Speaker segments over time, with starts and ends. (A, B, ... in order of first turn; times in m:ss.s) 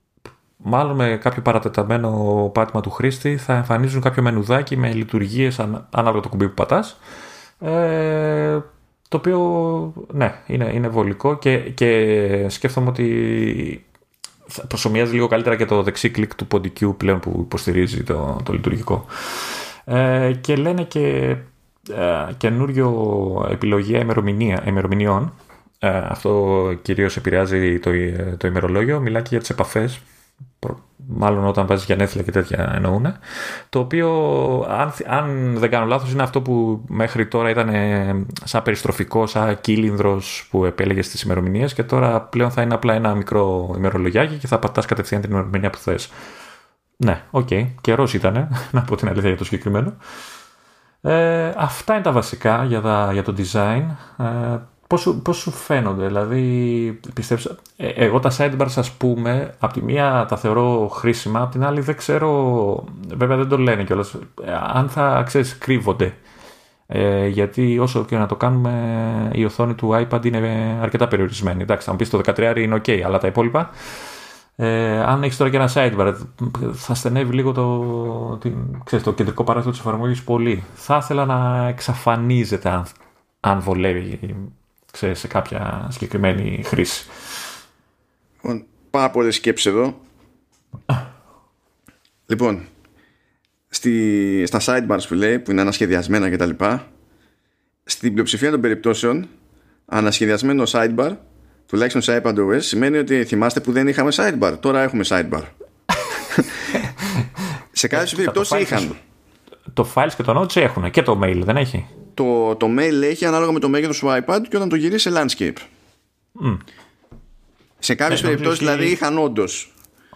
0:00.6-0:07.0 A
0:07.6-0:13.8 A
0:14.5-0:30.0 A
0:30.6-0:33.2 A
0:33.7-0:46.1 A
0:47.0-0:50.0 A
0:51.0-1:06.2 A
1:06.9-1:13.7 A
1:14.6-1:27.1 A
1:28.4-1:30.0 B
1:32.3-1:32.7 B
1:33.7-1:36.9 B
1:37.9-1:39.3 B
1:39.9-1:45.5 B
1:46.2-1:46.6 B
1:46.7-1:47.3 A
1:47.7-1:49.0 B
1:47.9-1:48.9 A
1:49.7-1:51.9 A
1:52.2-1:55.6 B
1:56.4-1:56.6 A
1:57.8-1:59.7 B
1:58.1-1:59.0 A